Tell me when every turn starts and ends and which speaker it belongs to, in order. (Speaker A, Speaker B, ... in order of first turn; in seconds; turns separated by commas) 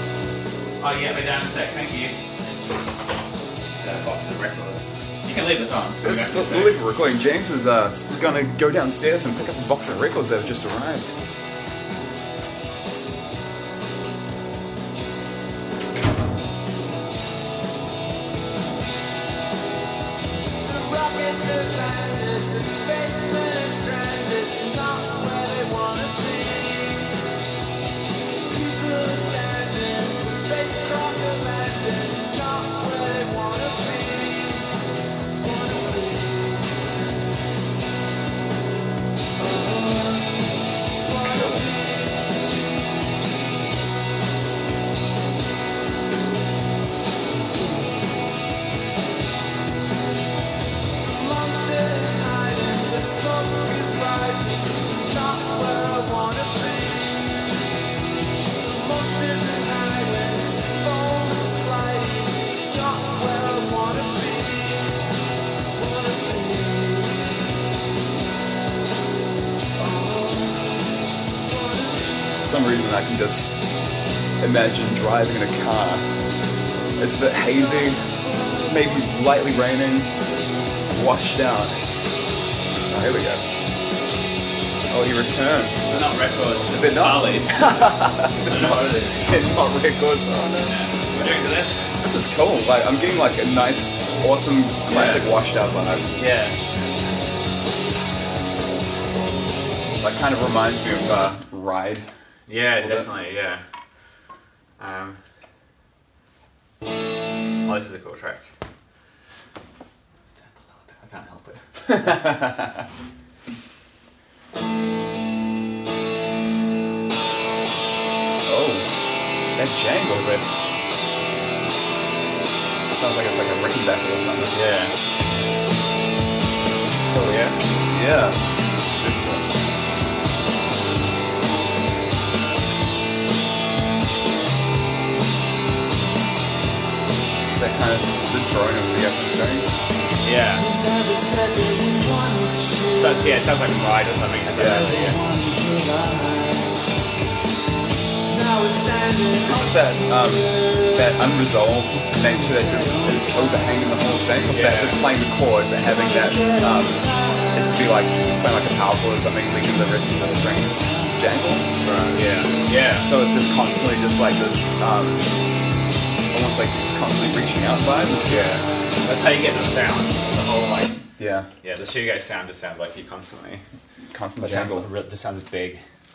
Speaker A: 0.8-2.2, Speaker A: 3.8-6.8, Speaker B: 6.0-11.1, Speaker C: 20.6-27.1, Speaker C: 28.5-34.7, Speaker C: 35.4-36.9, Speaker C: 39.4-40.4, Speaker B: 41.0-41.7, Speaker C: 41.0-42.2, Speaker C: 47.5-48.0, Speaker C: 51.1-57.4, Speaker C: 58.6-65.0, Speaker C: 65.7-67.4, Speaker C: 69.8-72.3, Speaker B: 72.4-73.6, Speaker B: 74.4-76.1, Speaker B: 77.0-78.0, Speaker C: 78.0-79.0, Speaker B: 78.6-80.1, Speaker B: 80.9-81.8, Speaker B: 82.9-83.4, Speaker B: 84.9-86.0, Speaker A: 85.9-89.3, Speaker B: 86.7-91.4, Speaker A: 90.6-91.9, Speaker B: 92.0-96.1, Speaker A: 94.9-95.4, Speaker A: 96.2-96.7, Speaker B: 100.0-102.1, Speaker A: 102.5-103.6, Speaker B: 102.8-103.1, Speaker A: 104.8-105.2, Speaker A: 107.7-108.5, Speaker A: 110.3-112.2, Speaker B: 111.9-112.8, Speaker B: 118.5-118.9, Speaker B: 119.6-120.5, Speaker B: 122.9-124.6, Speaker A: 124.5-124.9, Speaker A: 127.1-127.6, Speaker B: 127.9-129.5, Speaker B: 137.5-139.7, Speaker A: 140.2-140.7, Speaker C: 140.6-143.0, Speaker A: 142.9-145.2, Speaker B: 144.5-145.0, Speaker C: 145.0-146.8, Speaker C: 148.3-151.0, Speaker B: 149.4-161.7, Speaker C: 152.7-153.1, Speaker A: 154.5-155.1, Speaker C: 156.0-157.6, Speaker A: 161.8-163.1, Speaker B: 163.0-165.2, Speaker B: 166.3-168.6, Speaker A: 168.2-171.0, Speaker B: 171.2-171.5, Speaker A: 171.6-173.6, Speaker B: 174.1-174.9, Speaker A: 174.4-175.8